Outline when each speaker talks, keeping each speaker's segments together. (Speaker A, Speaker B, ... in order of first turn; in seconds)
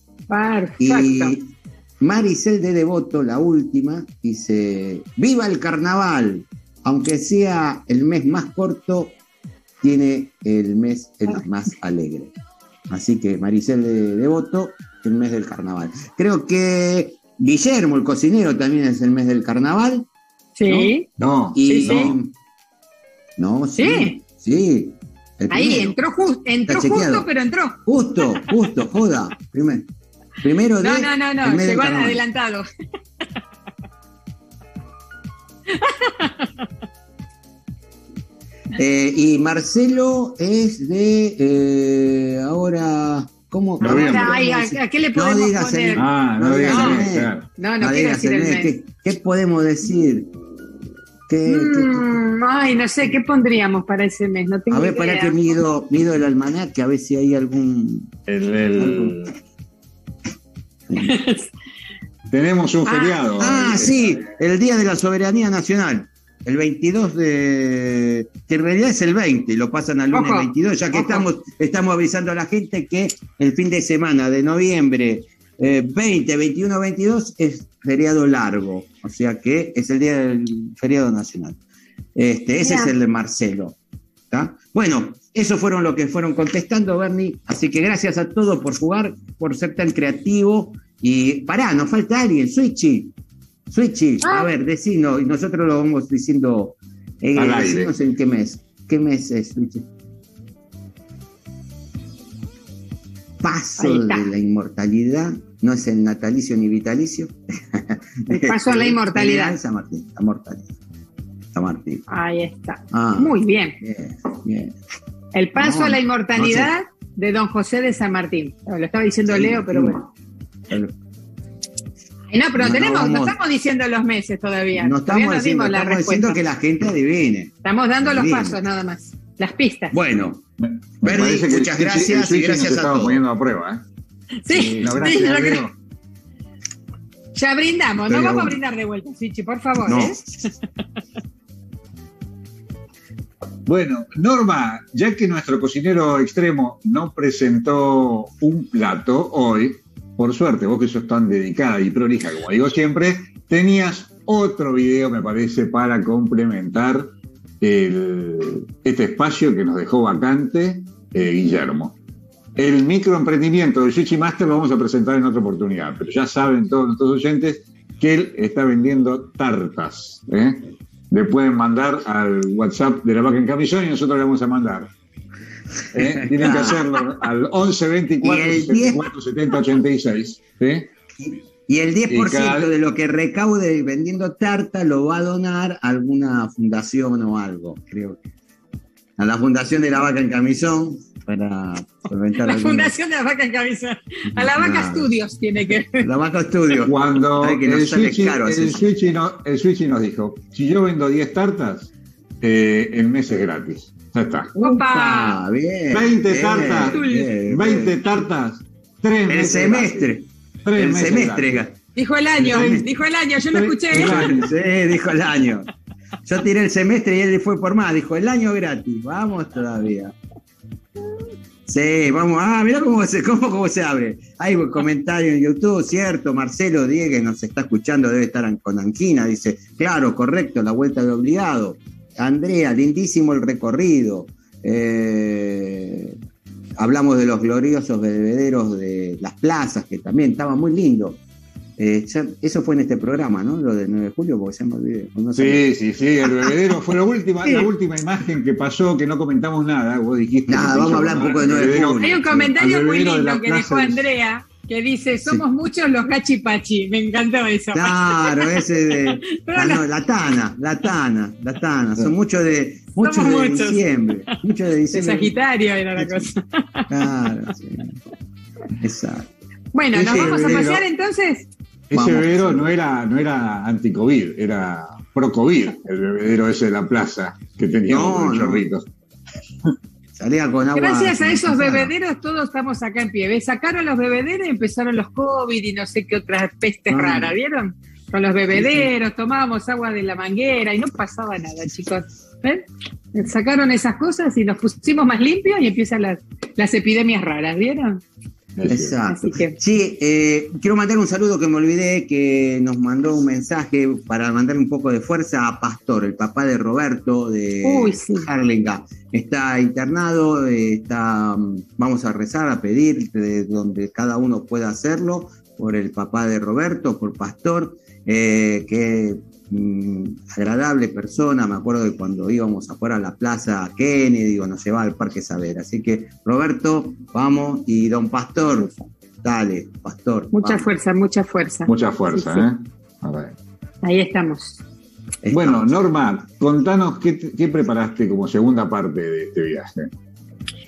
Speaker A: 0.3-1.3, 20.6-21.1, 21.6-22.1, 23.8-24.1, 25.5-28.4, 30.8-32.7, 35.8-36.3, 43.8-46.0, 46.7-47.0, 47.6-48.7, 51.5-55.4, 61.0-61.5, 62.9-63.2, 70.1-71.2, 82.6-82.9, 94.2-94.5, 103.8-104.3, 108.3-109.6, 112.1-113.8, 115.3-120.0, 122.3-126.4, 127.6-129.9, 134.4-135.6, 137.3-140.2, 192.4-196.1, 204.6-205.4, 206.8-207.3, 212.0-214.3, 252.0-258.5, 259.3-259.8, 263.0-263.9, 264.9-266.9, 269.7-271.5, 280.8-298.0, 299.1-299.6, 307.6-308.3, 330.3-332.5, 333.8-334.6
Speaker B: 0.8-9.2, 9.8-12.3, 12.9-20.1, 21.6-22.3, 23.4-26.0, 26.7-27.3, 27.9-29.9, 30.4-32.2, 38.8-50.3, 51.3-52.2, 54.7-58.1, 58.8-59.2, 63.4-81.6, 82.2-83.8, 84.3-93.1, 93.7-99.9, 103.4-110.7, 111.5-112.0, 112.9-114.8, 115.5-116.7, 119.3-120.1, 120.7-121.0, 122.6-123.4, 124.8-128.6, 129.9-130.4, 131.0-133.2, 134.8-135.2, 138.1-138.6, 139.8-140.4, 175.9-176.8, 178.2-179.1, 181.2-188.2, 189.2-192.9, 194.3-195.2, 196.0-198.9, 204.6-208.0, 209.3-210.2, 210.8-211.8, 212.4-212.9, 213.9-215.7, 216.3-220.2, 221.7-236.2, 236.8-241.2, 241.8-245.7, 250.5-252.2, 257.7-265.4, 265.9-266.3, 266.9-268.0, 268.8-269.3, 269.9-270.8, 271.9-272.7, 277.9-278.6, 280.2-281.9, 286.9-287.4, 288.5-288.9, 298.7-330.7, 335.2-335.8
Speaker C: 20.7-22.2, 43.8-44.4, 46.0-47.5, 58.3-59.3, 62.3-64.3, 97.4-97.9, 130.7-133.8, 134.5-135.7, 143.7-157.1, 157.6-162.0, 162.6-174.9, 175.9-180.9, 182.1-182.7, 196.8-201.9, 202.4-204.5, 205.9-210.1, 210.7-211.6, 212.5-212.8, 213.5-214.5, 245.3-254.0, 269.9-270.8, 271.9-278.9, 298.6-298.9, 331.7-333.4, 335.3-339.9